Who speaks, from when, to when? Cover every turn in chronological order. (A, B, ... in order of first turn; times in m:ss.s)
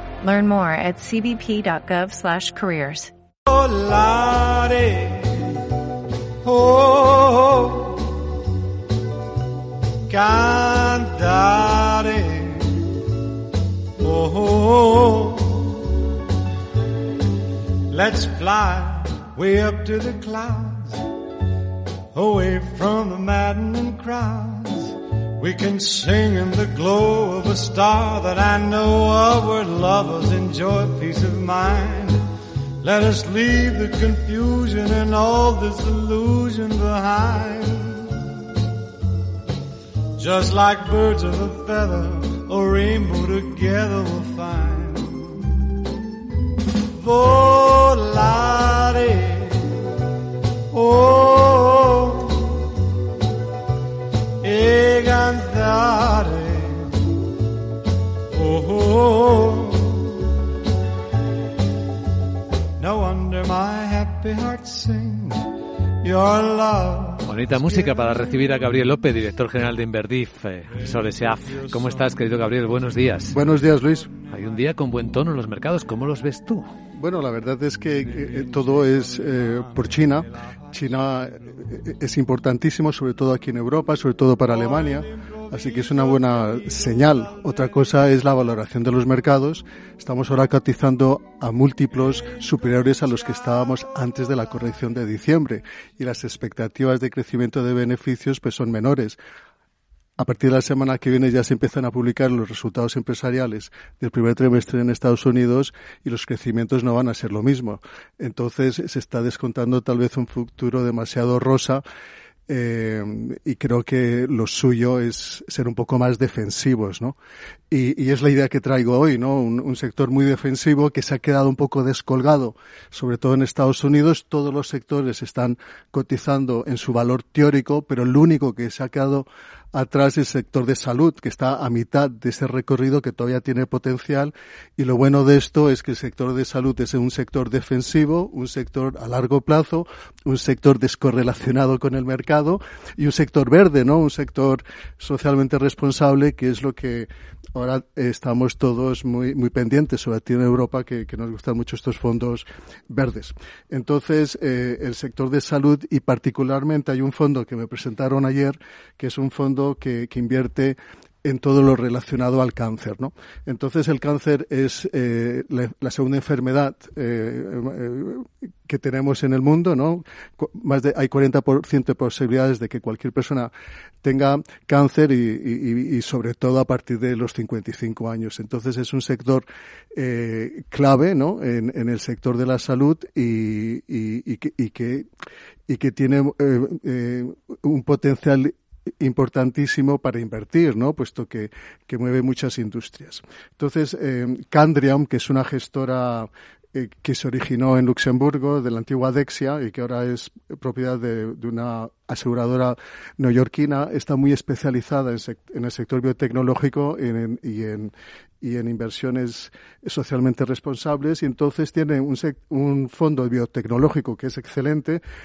0:00.2-0:03.1 A
0:03.5-0:05.8 B
0:06.4-0:08.3 B
0:10.1-0:13.0 B
0:14.0-0:16.1 B
0:17.9-0:21.2 B
0:22.1-0:32.3 B
0:32.8-0:38.4 B
0:40.2-0:45.7 B
0:46.8-0:50.0 B
0:50.7-0:52.8 B
0:54.4-0:57.2 B
0:58.3-1:00.4 B
1:02.8-1:08.2 B
1:07.2-1:13.4 C
1:11.7-1:12.0 B
1:13.3-1:14.1 D
1:14.3-1:16.6 C
1:16.9-1:39.2 D
1:18.4-1:19.2 B
1:40.2-1:51.8 D
1:52.5-1:57.2 D
1:57.7-2:53.5 D
2:54.0-3:05.0 D
3:05.7-3:35.0 D